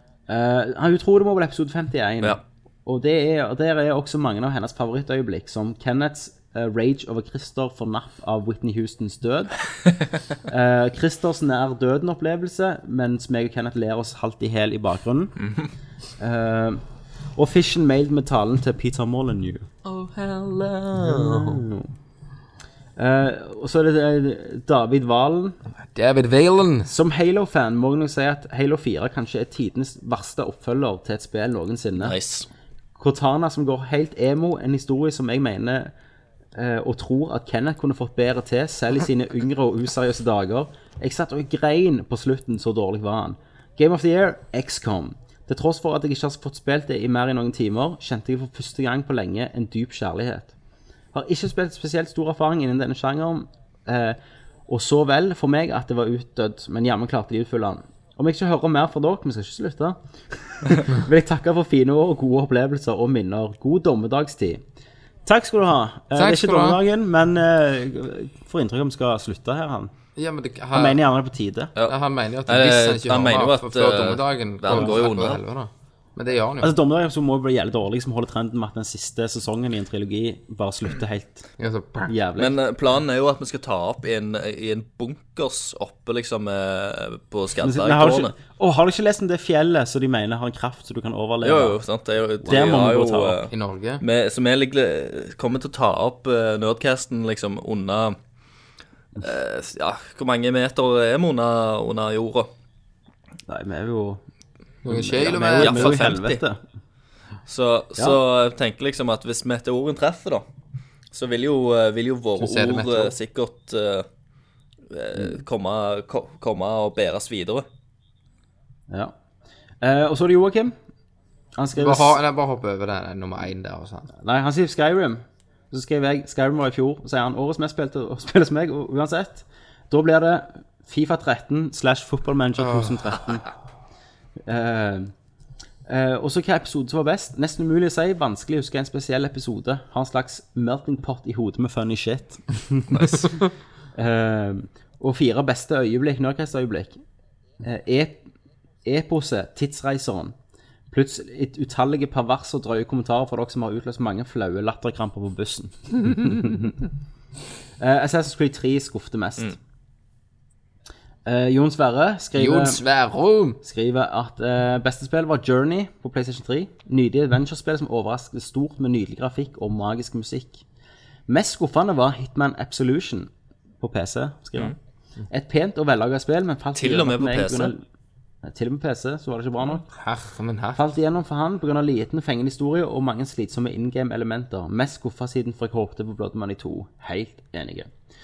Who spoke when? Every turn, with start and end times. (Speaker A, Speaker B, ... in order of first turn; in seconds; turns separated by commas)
Speaker A: 0.3-9.6, Speaker A: 10.5-15.3, Speaker A: 16.2-16.8, Speaker A: 17.4-19.7, Speaker B: 19.9-21.6, Speaker A: 21.0-21.9, Speaker A: 23.0-25.6, Speaker B: 25.7-26.9, Speaker A: 26.9-32.2, Speaker C: 32.0-32.5, Speaker A: 33.0-35.9, Speaker A: 36.5-50.5, Speaker A: 51.1-64.6, Speaker A: 65.3-69.9, Speaker B: 66.2-66.8, Speaker B: 70.2-71.0, Speaker A: 70.7-71.7, Speaker B: 71.9-76.7, Speaker C: 72.5-75.4, Speaker A: 74.7-75.0, Speaker A: 76.6-81.4, Speaker B: 81.6-82.1, Speaker A: 82.1-82.6, Speaker C: 82.4-88.3, Speaker A: 87.6-91.8, Speaker C: 91.4-98.2, Speaker A: 92.4-93.4, Speaker B: 93.5-94.0, Speaker C: 99.2-102.5, Speaker A: 103.5-104.2, Speaker B: 104.8-106.0, Speaker A: 104.9-106.6, Speaker C: 105.5-106.4, Speaker C: 107.5-110.5, Speaker C: 111.1-114.1, Speaker B: 112.4-113.2, Speaker C: 114.9-117.7, Speaker A: 118.9-119.1, Speaker A: 119.8-120.8, Speaker A: 121.6-122.2, Speaker B: 121.8-124.1, Speaker A: 124.2-133.5, Speaker B: 132.6-133.0, Speaker A: 134.5-135.1, Speaker A: 135.9-143.3, Speaker C: 142.9-143.3, Speaker A: 143.9-147.0, Speaker A: 147.6-148.3, Speaker A: 148.9-150.3, Speaker A: 150.9-156.8, Speaker A: 157.8-159.6, Speaker A: 161.3-162.8, Speaker B: 162.4-163.6, Speaker A: 163.6-170.6, Speaker A: 171.3-174.8, Speaker A: 175.3-177.8, Speaker C: 176.8-177.7, Speaker A: 178.4-179.8, Speaker B: 179.9-180.9, Speaker A: 180.8-187.9